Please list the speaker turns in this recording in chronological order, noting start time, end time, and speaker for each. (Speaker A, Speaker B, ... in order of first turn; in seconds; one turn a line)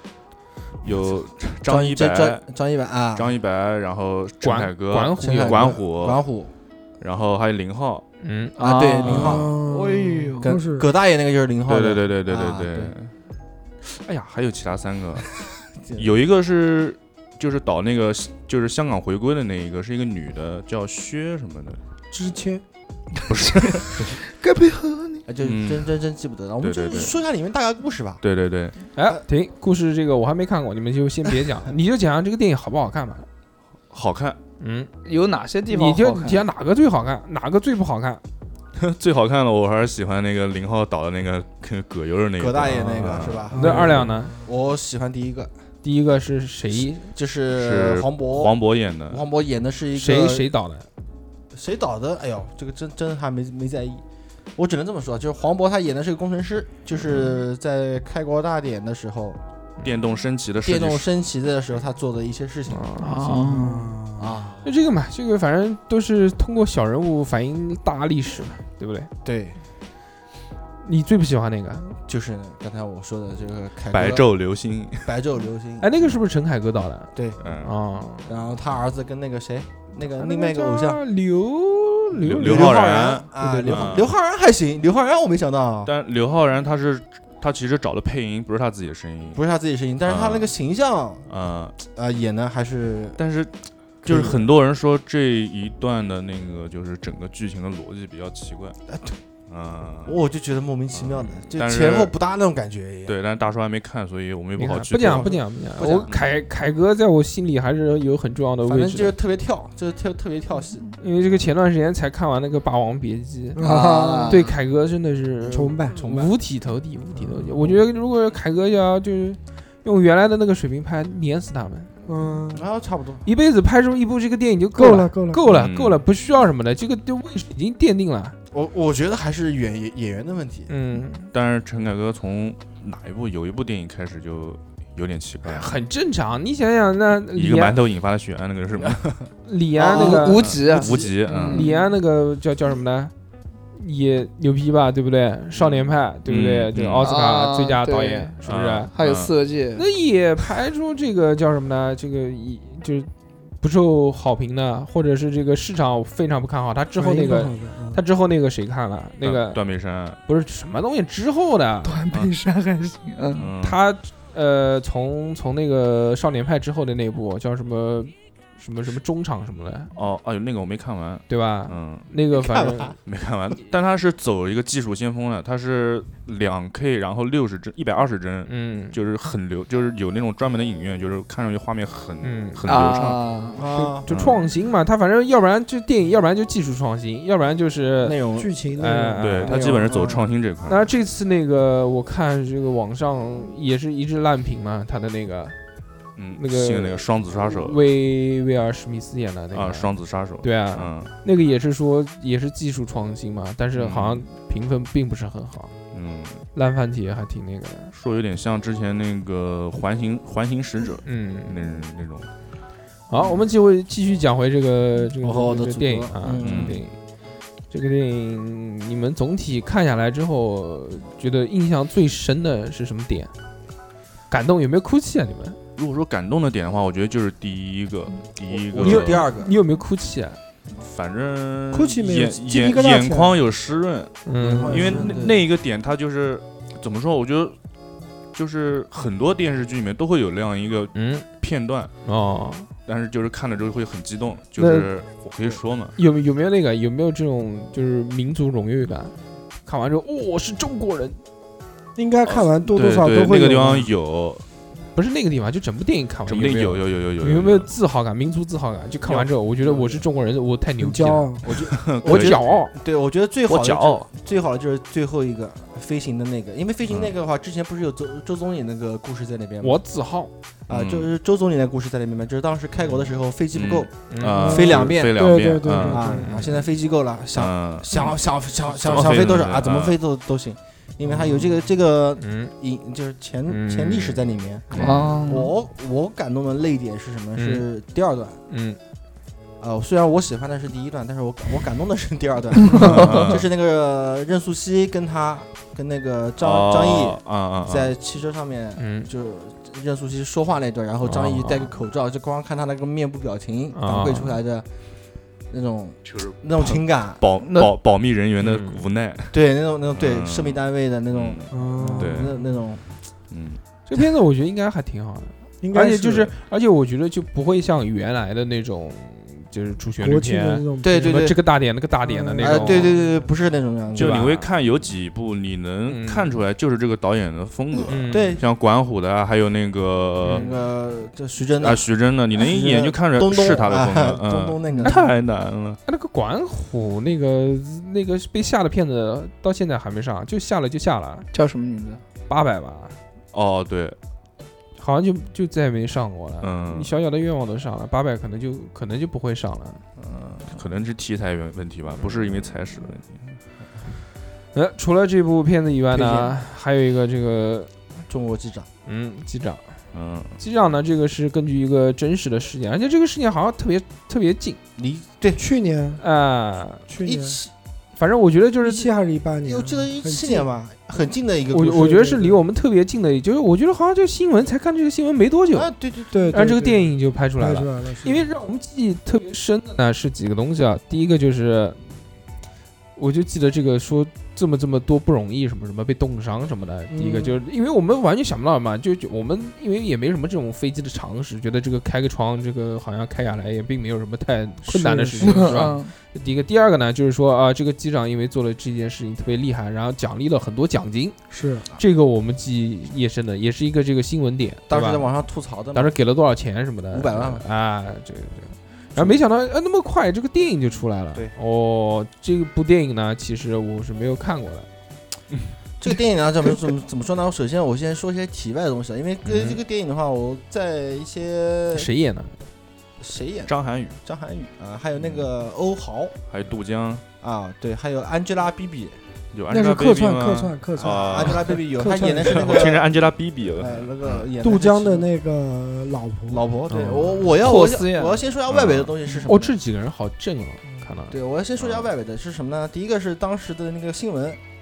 Speaker A: 0.8-2.4
Speaker B: 1.6-3.3
Speaker A: 3.1-6.2
Speaker C: 4.4-5.7
Speaker B: 5.2-6.5
Speaker A: 7.0-8.0
Speaker C: 8.2-8.5
Speaker B: 8.6-9.6
Speaker D: 8.6-10.5
Speaker A: 9.0-9.5
Speaker E: 9.2-10.9
Speaker B: 10.4-12.9
Speaker A: 11.7-13.1
Speaker A: 13.8-15.4
Speaker B: 15.8-16.1
Speaker A: 15.9-21.8
Speaker E: 22.1-22.6
Speaker D: 23.2-25.2
Speaker A: 23.3-24.1
Speaker B: 25.3-28.2
Speaker A: 25.4-25.9
Speaker A: 26.6-27.1
Speaker A: 28.2-28.8
Speaker C: 28.9-33.3
Speaker A: 33.9-34.4
Speaker C: 34.6-34.9
Speaker D: 35.0-36.5
Speaker C: 35.7-38.2
Speaker A: 38.8-43.5
Speaker B: 42.4-45.5
Speaker E: 43.5-44.3
Speaker C: 43.5-44.3
Speaker C: 45.8-47.1
Speaker B: 46.8-48.5
Speaker A: 47.5-49.2
Speaker B: 49.1-50.5
Speaker C: 50.0-50.9
Speaker B: 51.5-54.0
Speaker B: 54.5-59.4
Speaker A: 57.0-57.4
Speaker A: 59.8-61.1
Speaker B: 60.6-62.9
Speaker C: 62.7-63.6
Speaker D: 63.0-63.8
Speaker E: 63.4-64.4
Speaker B: 64.2-64.7
Speaker C: 64.6-69.1
Speaker B: 69.2-69.6
Speaker C: 70.8-71.9
Speaker B: 72.0-74.3
Speaker A: 73.9-75.1
Speaker B: 75.0-75.9
Speaker C: 75.8-78.3
Speaker B: 77.2-77.4
Speaker A: 77.4-77.7
Speaker B: 78.2-81.0
Speaker C: 80.0-82.8
Speaker A: 82.2-84.1
Speaker B: 82.4-85.9
Speaker C: 83.4-83.9
Speaker A: 85.8-89.4
Speaker B: 89.3-91.2
Speaker A: 90.0-90.5
Speaker A: 91.3-91.8
Speaker B: 91.8-93.2
Speaker A: 93.2-93.5
Speaker A: 94.0-98.8
Speaker B: 94.0-94.4
Speaker B: 98.9-99.2
Speaker A: 99.5-100.2
Speaker B: 100.0-103.1
Speaker A: 100.9-102.1
Speaker A: 103.0-105.3
Speaker C: 104.6-109.2
Speaker B: 105.0-106.1
Speaker B: 108.7-110.9
Speaker C: 111.0-113.6
Speaker E: 113.5-114.4
Speaker D: 113.6-114.5
Speaker C: 114.3-121.9
Speaker E: 115.4-116.0
Speaker B: 116.0-116.3
Speaker E: 117.1-117.8
Speaker E: 122.0-122.7
Speaker B: 122.5-123.2
Speaker C: 123.2-128.3
Speaker E: 124.7-125.4
Speaker A: 125.5-126.0
Speaker B: 128.5-130.7
Speaker C: 130.7-131.3
Speaker A: 131.3-135.7
Speaker C: 135.4-137.8
Speaker A: 137.3-139.1
Speaker C: 139.4-140.8
Speaker B: 139.8-140.4
Speaker D: 139.8-141.8
Speaker A: 140.4-141.7
Speaker C: 141.4-143.1
Speaker C: 143.7-148.9
Speaker A: 145.7-147.1
Speaker D: 147.0-148.3
Speaker A: 148.4-149.3
Speaker D: 148.9-149.8
Speaker C: 149.7-159.6
Speaker E: 157.0-158.0
Speaker A: 159.2-160.2
Speaker C: 160.2-162.0
Speaker D: 161.8-163.5
Speaker A: 163.3-163.8
Speaker C: 163.6-169.9
Speaker A: 169.9-172.1
Speaker C: 171.3-172.9
Speaker B: 172.4-172.9
Speaker A: 173.0-183.2
Speaker C: 178.5-178.9
Speaker C: 182.2-182.7
Speaker D: 182.7-183.6
Speaker B: 183.6-184.1
Speaker C: 183.7-188.2
Speaker A: 184.1-184.4
Speaker B: 188.0-188.5
Speaker E: 188.3-189.7
Speaker C: 188.7-189.8
Speaker A: 189.2-190.8
Speaker B: 189.5-190.2
Speaker C: 190.7-195.6
Speaker A: 196.2-197.8
Speaker C: 196.3-199.9
Speaker A: 199.5-201.1
Speaker C: 200.4-205.7
Speaker A: 203.8-204.2
Speaker A: 205.9-206.4
Speaker C: 206.5-207.9
Speaker A: 207.9-212.3
Speaker C: 211.0-211.5
Speaker C: 213.1-217.0
Speaker B: 215.2-216.8
Speaker A: 216.4-216.8
Speaker C: 217.7-223.3
Speaker C: 224.3-225.6
Speaker A: 225.8-229.2
Speaker B: 228.5-229.5
Speaker C: 228.8-230.4
Speaker A: 230.8-237.6
Speaker E: 231.7-233.4
Speaker C: 234.2-235.1
Speaker B: 234.4-235.4
Speaker E: 234.7-235.1
Speaker A: 238.3-241.9
Speaker C: 240.9-241.2
Speaker C: 242.0-242.7
Speaker A: 242.8-245.9
Speaker C: 244.6-244.9
Speaker C: 246.0-249.1
Speaker C: 249.6-251.2
Speaker E: 251.9-253.9
Speaker A: 252.2-254.4
Speaker C: 254.9-262.7
Speaker A: 256.3-257.7
Speaker B: 259.1-260.0
Speaker E: 260.8-261.6
Speaker A: 261.7-262.5
Speaker B: 262.0-269.8
Speaker A: 263.5-264.1
Speaker A: 266.9-267.1
Speaker C: 269.6-270.3
Speaker B: 270.7-273.9
Speaker A: 270.7-271.1
Speaker A: 272.9-276.1
Speaker C: 274.1-274.6
Speaker E: 274.4-276.4
Speaker B: 274.4-275.2
Speaker B: 275.8-288.4
Speaker C: 276.1-276.6
Speaker A: 277.3-280.0
Speaker E: 281.1-281.6
Speaker C: 282.2-282.5
Speaker C: 283.5-284.2
Speaker A: 284.7-285.2
Speaker D: 284.8-285.5
Speaker C: 287.4-287.6
Speaker C: 288.5-288.8
Speaker B: 289.6-304.6
Speaker D: 292.7-293.2
Speaker A: 292.7-293.4
Speaker A: 296.4-297.9
Speaker C: 298.8-299.1
Speaker C: 301.0-301.7
Speaker C: 303.7-304.4
Speaker B: 305.5-307.2
Speaker A: 306.1-309.4
Speaker D: 307.4-307.7
Speaker C: 308.4-308.8
Speaker B: 309.3-312.8
Speaker A: 309.9-312.4
Speaker E: 311.5-312.4
Speaker A: 313.3-313.6
Speaker C: 313.9-322.9
Speaker E: 315.6-316.3
Speaker E: 320.0-321.3
Speaker B: 320.8-321.4
Speaker E: 322.0-323.2
Speaker B: 322.4-324.3
Speaker C: 323.9-324.5
Speaker A: 323.9-330.5
Speaker C: 325.9-326.3
Speaker B: 327.7-328.4
Speaker C: 327.9-328.4
Speaker B: 330.2-335.0
Speaker A: 331.6-335.8
Speaker C: 334.8-335.1
Speaker C: 335.9-341.3
Speaker D: 341.3-342.0
Speaker C: 342.3-342.9
Speaker A: 343.3-343.9
Speaker C: 344.8-349.8
Speaker A: 346.4-346.9
Speaker B: 350.0-350.5
Speaker A: 350.4-353.2
Speaker C: 354.5-357.7
Speaker B: 355.9-356.3
Speaker B: 358.1-358.7
Speaker C: 358.9-359.6
Speaker A: 359.9-360.4
Speaker C: 360.4-364.6
Speaker B: 364.8-365.4
Speaker E: 365.4-366.0
Speaker C: 366.0-366.8
Speaker E: 366.9-367.4
Speaker B: 367.0-367.5
Speaker C: 368.0-368.9
Speaker E: 368.6-370.5
Speaker B: 369.4-372.0
Speaker C: 371.5-375.7
Speaker E: 372.0-372.4
Speaker B: 375.5-376.4
Speaker E: 376.1-378.2
Speaker C: 376.3-381.8
Speaker C: 382.9-405.1
Speaker E: 386.9-387.4
Speaker E: 394.7-395.5
Speaker D: 395.2-395.9
Speaker E: 401.3-401.6
Speaker B: 404.7-405.9
Speaker C: 405.7-414.7
Speaker B: 406.9-407.4
Speaker B: 415.8-421.9
Speaker C: 419.2-419.6
Speaker C: 421.7-422.4
Speaker B: 423.0-423.5
Speaker A: 423.5-424.0
Speaker B: 424.0-426.1
Speaker A: 425.0-425.3
Speaker A: 426.3-427.0
Speaker B: 427.2-429.0
Speaker A: 429.3-431.6
Speaker E: 429.5-432.8
Speaker B: 430.8-433.0
Speaker A: 432.2-434.3
Speaker B: 433.6-435.1
Speaker E: 434.4-437.0
Speaker B: 436.3-439.5
Speaker C: 436.7-437.1
Speaker D: 437.4-438.2
Speaker A: 438.5-438.9
Speaker C: 439.2-441.2
Speaker B: 441.1-444.4
Speaker A: 441.6-441.9